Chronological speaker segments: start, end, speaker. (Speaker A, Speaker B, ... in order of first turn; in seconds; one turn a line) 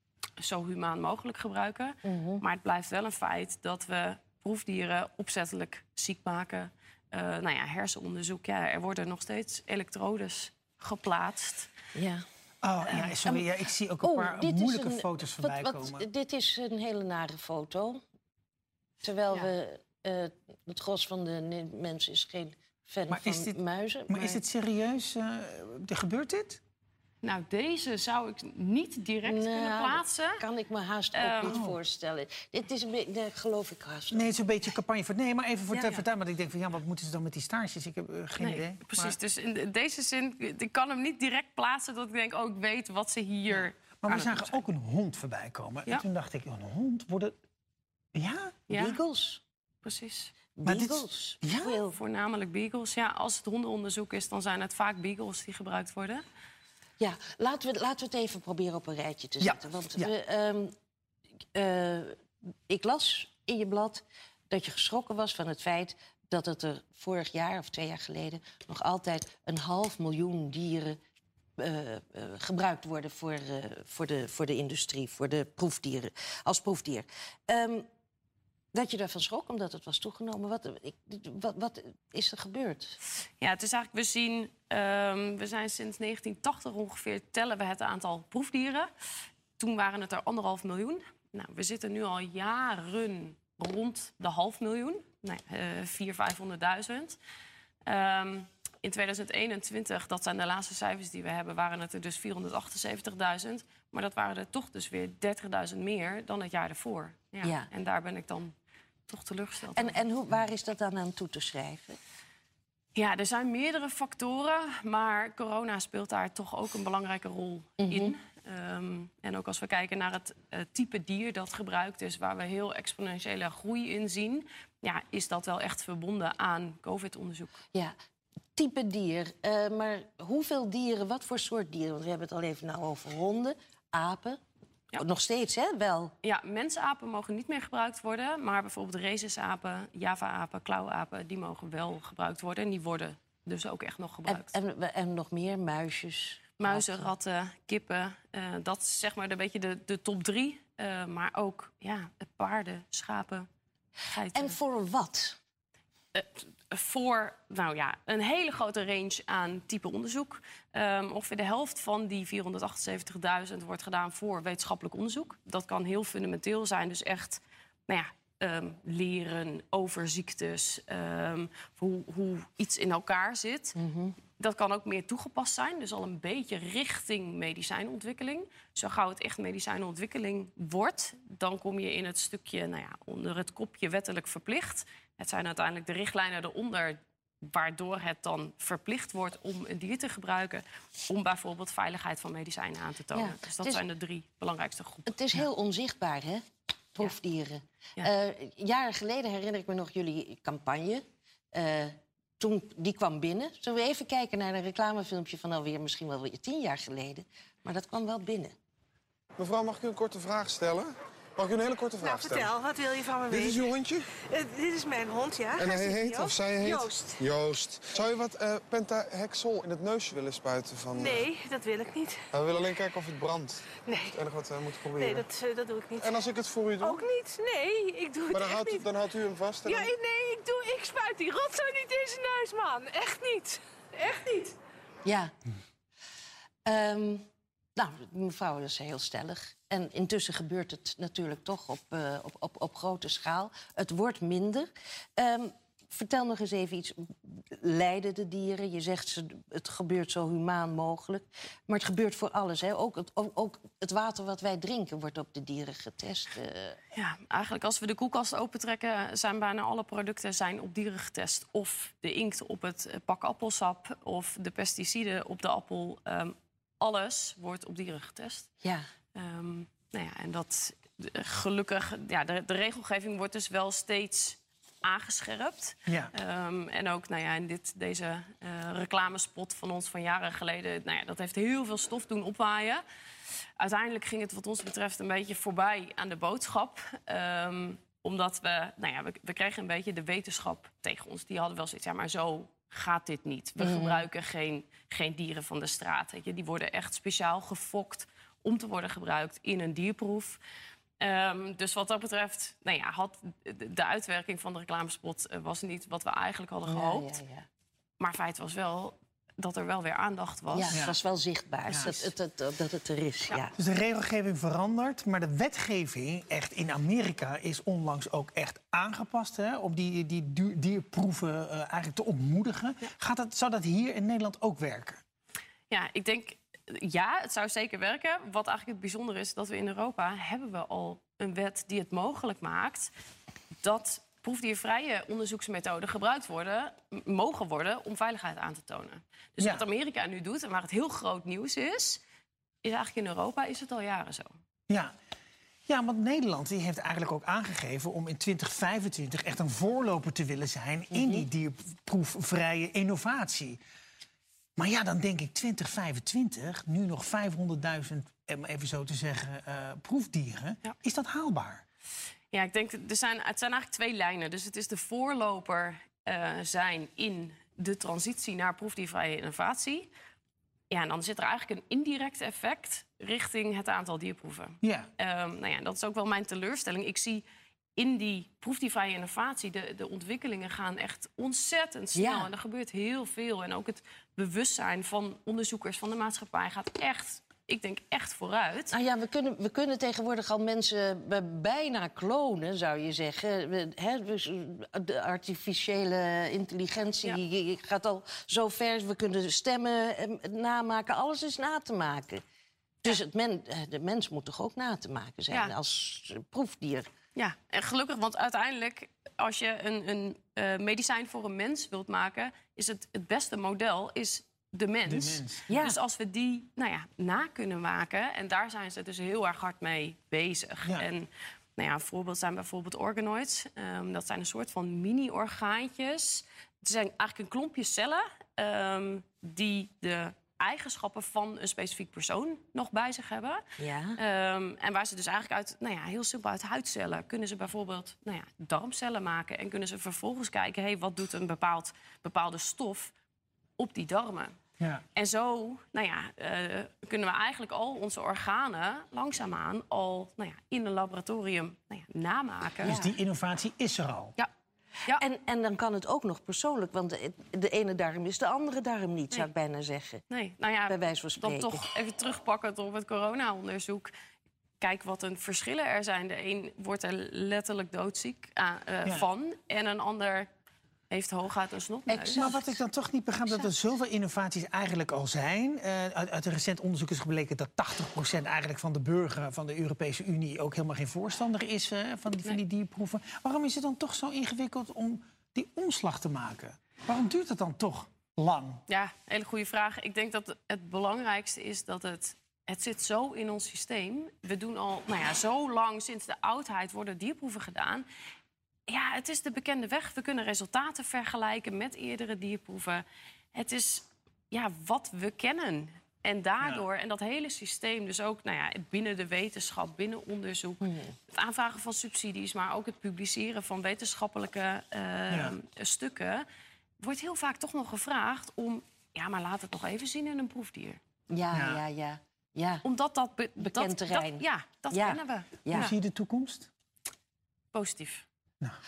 Speaker A: 0.4-11.7
Speaker B: 2.0-2.4
Speaker B: 11.9-12.2
Speaker C: 12.6-16.1
Speaker B: 13.0-18.0
Speaker B: 19.0-24.4
Speaker C: 23.1-26.6
Speaker A: 27.2-30.4
Speaker B: 29.2-34.4
Speaker A: 31.1-31.6
Speaker C: 31.4-31.8
Speaker C: 34.1-39.2
Speaker B: 35.7-36.0
Speaker A: 38.4-44.6
Speaker C: 43.6-47.3
Speaker C: 48.1-48.7
Speaker A: 48.7-49.0
Speaker B: 48.7-49.4
Speaker A: 49.8-50.3
Speaker B: 50.6-52.0
Speaker C: 50.6-51.7
Speaker A: 51.6-56.2
Speaker B: 57.0-60.7
Speaker C: 59.4-60.1
Speaker B: 61.5-62.2
Speaker B: 62.7-71.0
Speaker B: 71.6-77.8
Speaker B: 78.7-83.0
Speaker A: 83.4-88.9
Speaker A: 89.6-97.2
Speaker A: 97.8-108.5
Speaker B: 107.4-107.7
Speaker A: 109.1-110.0
Speaker B: 109.8-112.0
Speaker A: 112.9-127.6
Speaker B: 117.8-118.2
Speaker B: 128.6-134.4
Speaker B: 134.9-136.1
Speaker A: 136.2-144.5
Speaker B: 144.3-147.1
Speaker A: 146.6-153.5
Speaker A: 154.1-154.6
Speaker B: 154.3-155.4
Speaker A: 156.1-173.8
Speaker B: 173.8-174.2
Speaker A: 174.4-195.4
Speaker B: 193.1-193.8
Speaker B: 195.1-196.4
Speaker B: 196.9-208.5
Speaker D: 209.4-212.6
Speaker E: 212.0-217.2
Speaker D: 213.3-214.1
Speaker D: 215.5-221.3
Speaker E: 220.9-222.3
Speaker D: 222.3-225.3
Speaker E: 223.8-224.2
Speaker E: 225.0-226.3
Speaker D: 226.0-227.0
Speaker E: 226.8-228.9
Speaker D: 228.3-229.9
Speaker E: 229.7-234.5
Speaker B: 235.0-235.3
Speaker B: 236.7-237.2
Speaker B: 237.8-256.8
Speaker A: 256.9-268.5
Speaker A: 269.1-282.8
Speaker C: 275.9-276.1
Speaker A: 283.6-300.4
Speaker B: 293.6-294.0
Speaker A: 301.0-307.2
Speaker B: 306.7-307.4
Speaker A: 308.0-310.9
Speaker B: 310.5-313.5
Speaker A: 311.6-312.1
Speaker C: 313.5-325.0
Speaker A: 325.7-332.9
Speaker A: 333.6-342.0
Speaker C: 339.4-339.6
Speaker A: 342.6-344.3
Speaker C: 344.7-344.9
Speaker C: 345.7-353.6
Speaker B: 350.9-351.3
Speaker C: 354.6-361.6
Speaker A: 362.3-369.9
Speaker A: 370.7-377.2
Speaker C: 374.6-374.9
Speaker A: 377.8-388.8
Speaker B: 381.9-382.3
Speaker B: 388.7-402.2
Speaker B: 402.8-406.9
Speaker A: 407.1-433.4
Speaker C: 414.9-415.4
Speaker B: 415.5-415.8
Speaker B: 433.6-434.0
Speaker A: 434.0-442.9
Speaker A: 443.6-444.3
Speaker A: 444.9-452.8
Speaker C: 452.6-454.1
Speaker B: 452.6-452.9
Speaker B: 454.9-460.0
Speaker A: 460.1-463.9
Speaker B: 460.7-461.6
Speaker A: 464.6-470.3
Speaker A: 470.9-472.5
Speaker B: 471.9-472.6
Speaker C: 472.1-488.6
Speaker A: 488.7-497.9
Speaker A: 498.7-516.2
Speaker B: 510.6-510.9
Speaker C: 515.1-515.4
Speaker A: 516.8-520.8
Speaker B: 521.1-522.6
Speaker C: 521.3-521.6
Speaker A: 522.6-525.7
Speaker B: 523.4-525.7
Speaker C: 525.5-526.5
Speaker A: 527.5-528.0